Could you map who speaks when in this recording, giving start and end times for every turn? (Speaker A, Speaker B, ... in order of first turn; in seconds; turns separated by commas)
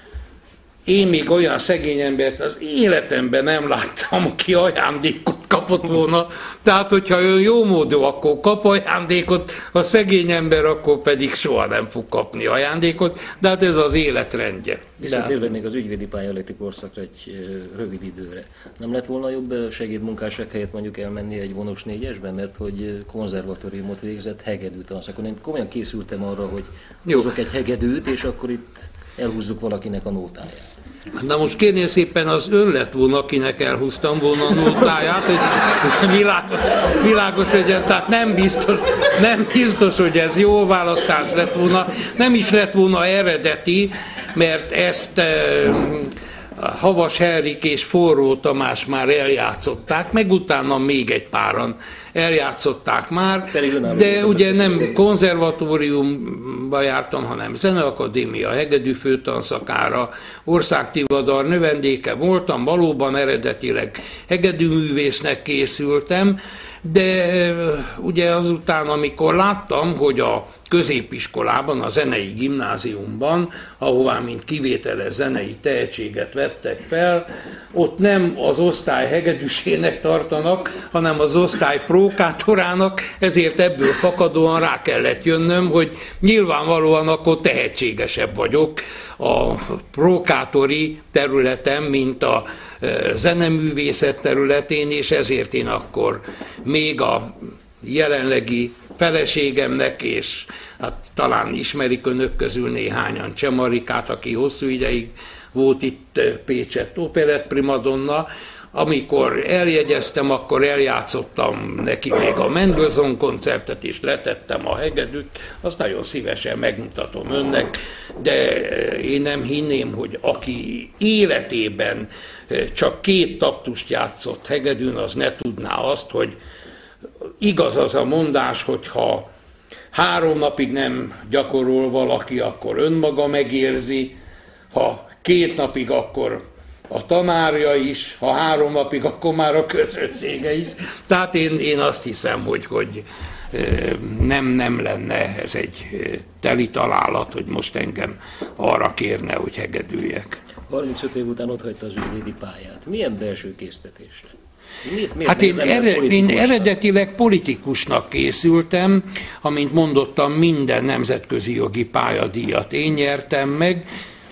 Speaker A: 0.8-15.4, Speaker B: 15.0-30.7, Speaker A: 31.2-126.3, Speaker B: 53.5-54.9, Speaker A: 127.4-129.3, Speaker A: 129.9-134.2, Speaker A: 134.7-150.4, Speaker B: 150.7-156.7, Speaker A: 155.2-163.8